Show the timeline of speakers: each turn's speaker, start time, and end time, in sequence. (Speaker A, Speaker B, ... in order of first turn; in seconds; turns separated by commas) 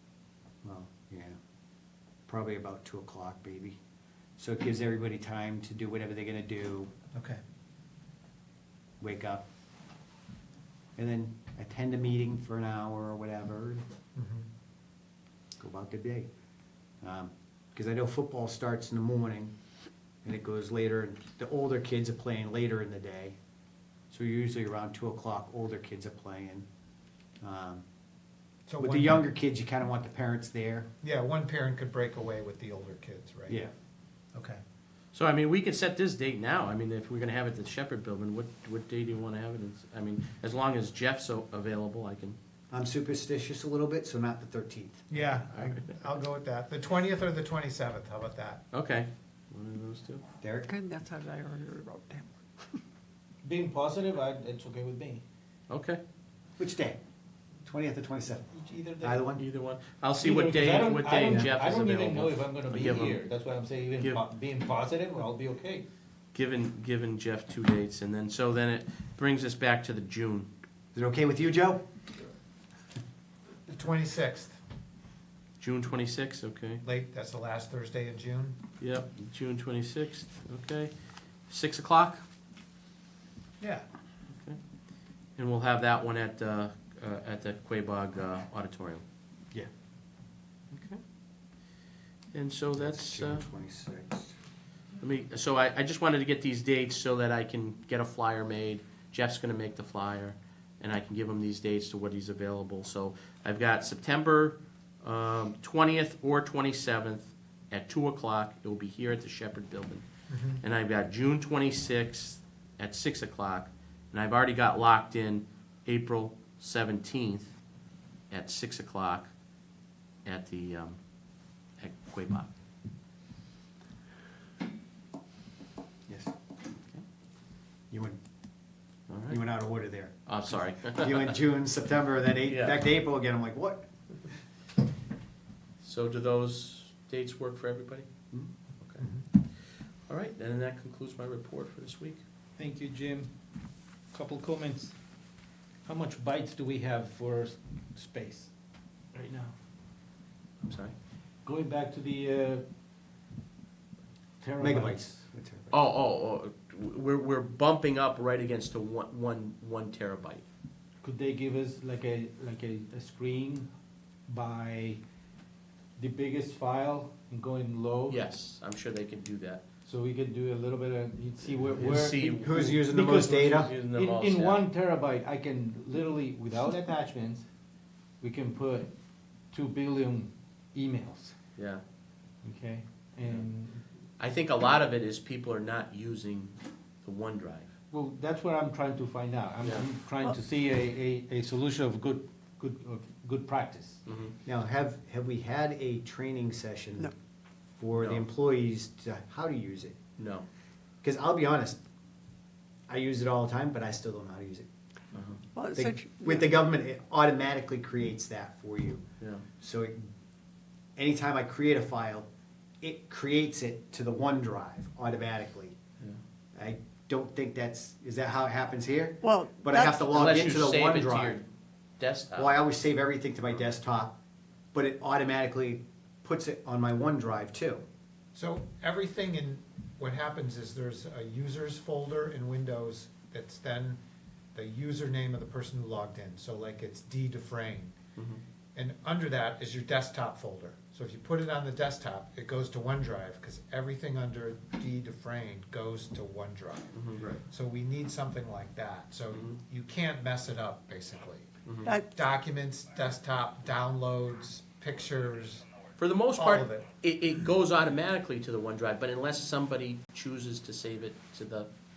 Speaker A: 0.6-1.4, Speaker A: 2.3-3.8, Speaker A: 4.4-6.9, Speaker B: 7.1-7.4, Speaker A: 9.0-9.4, Speaker A: 11.0-13.8, Speaker B: 14.2-14.5, Speaker A: 15.6-16.3, Speaker A: 17.0-19.5, Speaker A: 20.2-23.4, Speaker A: 24.1-26.7, Speaker A: 27.4-27.8, Speaker B: 28.7-29.3, Speaker A: 28.8-30.9, Speaker B: 31.0-33.6, Speaker B: 34.3-34.6, Speaker C: 35.1-42.4, Speaker A: 42.7-45.0, Speaker B: 45.1-48.6, Speaker C: 45.5-46.0, Speaker C: 48.7-50.2, Speaker A: 50.4-50.7, Speaker D: 50.7-52.8, Speaker E: 53.4-55.2, Speaker C: 55.7-56.0, Speaker A: 56.6-57.0, Speaker A: 57.6-58.5, Speaker E: 58.5-59.2, Speaker A: 59.0-59.5, Speaker C: 59.4-63.2, Speaker E: 60.2-65.9, Speaker C: 66.3-70.5, Speaker A: 70.9-71.8, Speaker B: 73.7-74.6, Speaker C: 75.6-76.8, Speaker B: 76.8-78.6, Speaker C: 78.8-80.9, Speaker C: 81.5-82.2, Speaker B: 83.6-83.8, Speaker C: 85.4-89.0, Speaker C: 90.7-91.0, Speaker C: 92.3-93.5, Speaker A: 92.8-94.3, Speaker C: 95.0-110.0, Speaker B: 110.3-110.6, Speaker C: 110.6-117.5, Speaker C: 118.3-119.3, Speaker C: 120.2-121.0, Speaker C: 121.8-122.5, Speaker A: 127.9-128.2, Speaker C: 129.1-129.4, Speaker A: 129.3-130.3, Speaker C: 130.3-131.4, Speaker A: 130.8-133.8, Speaker C: 132.4-132.8, Speaker C: 135.8-138.1, Speaker C: 138.8-142.2, Speaker B: 139.0-139.2, Speaker E: 142.6-143.3, Speaker E: 144.1-145.0, Speaker E: 145.8-148.5, Speaker E: 149.1-149.5, Speaker C: 150.6-150.9, Speaker E: 151.4-152.6, Speaker E: 154.4-155.2, Speaker A: 154.6-155.8, Speaker C: 155.7-160.4, Speaker E: 161.0-163.7, Speaker E: 164.3-165.0, Speaker E: 166.0-168.2, Speaker C: 168.1-169.6, Speaker E: 169.8-177.4, Speaker C: 171.7-172.7, Speaker A: 172.3-173.7, Speaker C: 173.5-174.6, Speaker E: 178.2-178.9, Speaker E: 179.5-181.3, Speaker C: 181.6-181.8, Speaker E: 182.4-183.8, Speaker C: 184.2-187.7, Speaker E: 187.9-194.0, Speaker C: 194.1-194.3, Speaker A: 194.4-197.1, Speaker A: 197.8-200.0, Speaker C: 197.9-198.2, Speaker C: 200.2-200.5, Speaker A: 201.0-201.8, Speaker A: 202.9-204.7, Speaker C: 205.1-205.4, Speaker D: 205.6-206.5, Speaker A: 205.8-209.0, Speaker C: 209.2-209.4, Speaker A: 209.6-210.1, Speaker A: 211.0-212.3, Speaker A: 212.8-215.8, Speaker A: 216.5-221.4, Speaker D: 219.2-220.1, Speaker C: 220.1-221.5, Speaker C: 222.0-222.6, Speaker A: 222.3-224.2, Speaker A: 224.7-227.8, Speaker B: 228.3-234.0, Speaker B: 234.5-237.9, Speaker C: 238.2-238.4, Speaker B: 238.8-251.5, Speaker C: 246.9-247.2, Speaker C: 249.3-249.6, Speaker C: 251.7-251.9, Speaker B: 252.1-255.7, Speaker C: 256.0-261.7, Speaker B: 256.3-256.9